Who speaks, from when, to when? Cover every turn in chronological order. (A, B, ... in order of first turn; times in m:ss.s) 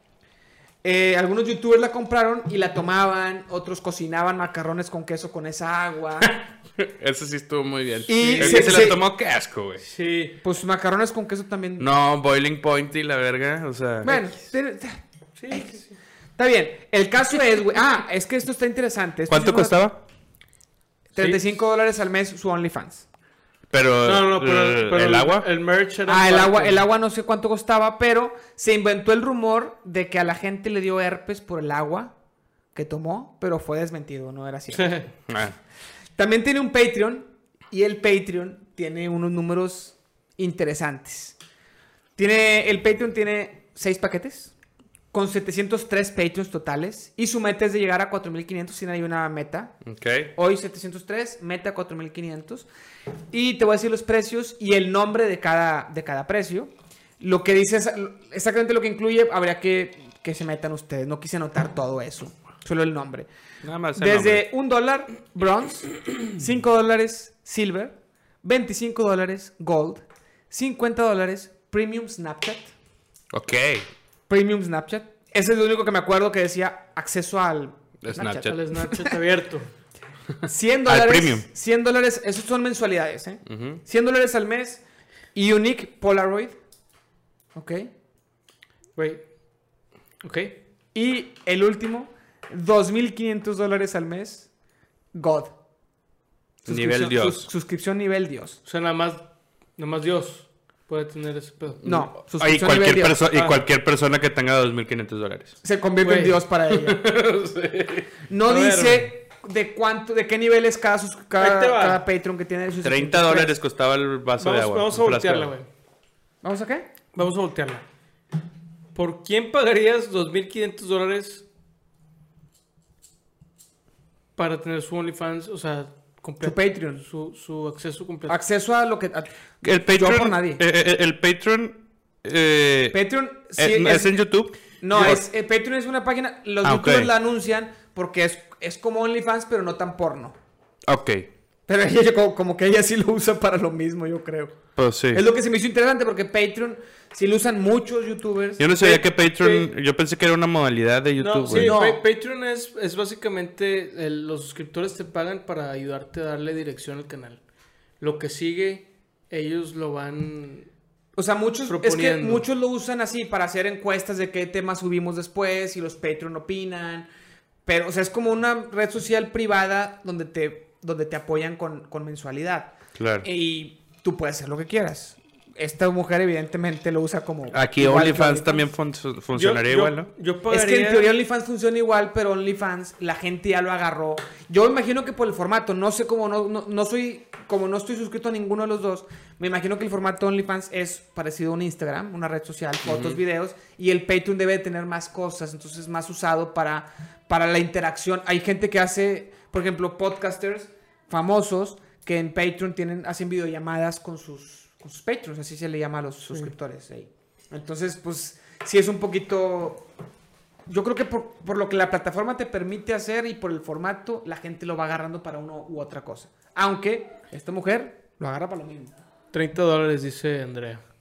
0:00.8-0:06.3 A
0:06.2-0:09.8 B
0:08.1-0:09.0 A
0:08.1-0:08.9 C
0:09.8-0:10.4 C
0:10.4-0:11.9 A
0:11.8-0:14.2 B
0:14.0-0:15.8 A
0:15.4-0:15.9 C
0:16.4-0:19.8 A
0:19.3-0:20.0 B
0:21.1-0:23.1 A
0:23.7-0:25.5 B
0:24.0-0:26.9 C
0:26.1-0:32.1 A
0:32.7-0:35.0 A
0:34.7-0:35.1 C
0:35.3-0:35.6 B
0:36.2-0:41.4 A
0:42.2-0:44.5 A
0:45.1-0:49.8 A
0:49.8-0:50.3 B
0:50.3-0:52.7 A
0:53.3-1:03.3 A
1:03.6-1:04.4 B
1:04.0-1:12.7 A
1:13.3-1:13.9 B
1:14.3-1:19.1 A
1:18.0-1:18.6 B
1:18.4-1:19.7 C
1:20.4-1:24.8 A
1:20.8-1:21.4 B
1:23.4-1:23.8 B
1:25.3-1:26.6 A
1:27.5-1:27.9 A
1:29.0-1:29.2 C
1:30.2-1:30.5 C
1:30.9-1:34.5 A
1:35.1-1:35.5 A
1:36.6-1:37.5 B
1:36.7-1:38.6 A
1:38.6-1:39.2 C
1:39.8-1:41.8 C
1:41.8-1:45.6 B
1:41.8-1:43.2 A
1:43.3-1:43.6 C
1:45.6-1:47.0 A
1:46.0-1:46.4 C
1:46.7-1:48.1 B
1:48.3-1:53.6 A
1:48.5-1:49.1 C
1:51.4-1:52.0 C
1:52.8-1:55.5 B
1:54.4-1:55.7 C
1:56.4-1:56.9 A
1:57.1-1:57.8 C
1:58.9-2:01.4 C
2:04.4-2:08.4 C
2:06.4-2:07.0 A
2:08.3-2:10.6 A
2:09.6-2:13.0 B
2:12.9-2:14.3 A
2:13.6-2:15.2 B
2:14.8-2:20.3 A
2:16.6-2:17.1 B
2:20.8-2:21.3 B
2:21.7-2:24.6 A
2:24.8-2:25.2 B
2:25.1-2:29.0 A
2:28.6-2:31.8 B
2:29.4-2:29.7 C
2:31.2-2:37.4 C
2:31.5-2:32.0 A
2:38.0-2:40.7 C
2:41.2-2:47.1 A
2:41.6-2:42.4 C
2:47.6-2:52.7 A
2:53.0-2:53.3 B
2:53.2-2:58.6 A
2:57.5-3:00.1 B
2:59.3-3:01.1 C
3:00.5-3:29.8 A
3:12.8-3:13.2 B
3:30.7-3:38.9 A
3:39.3-3:40.8 C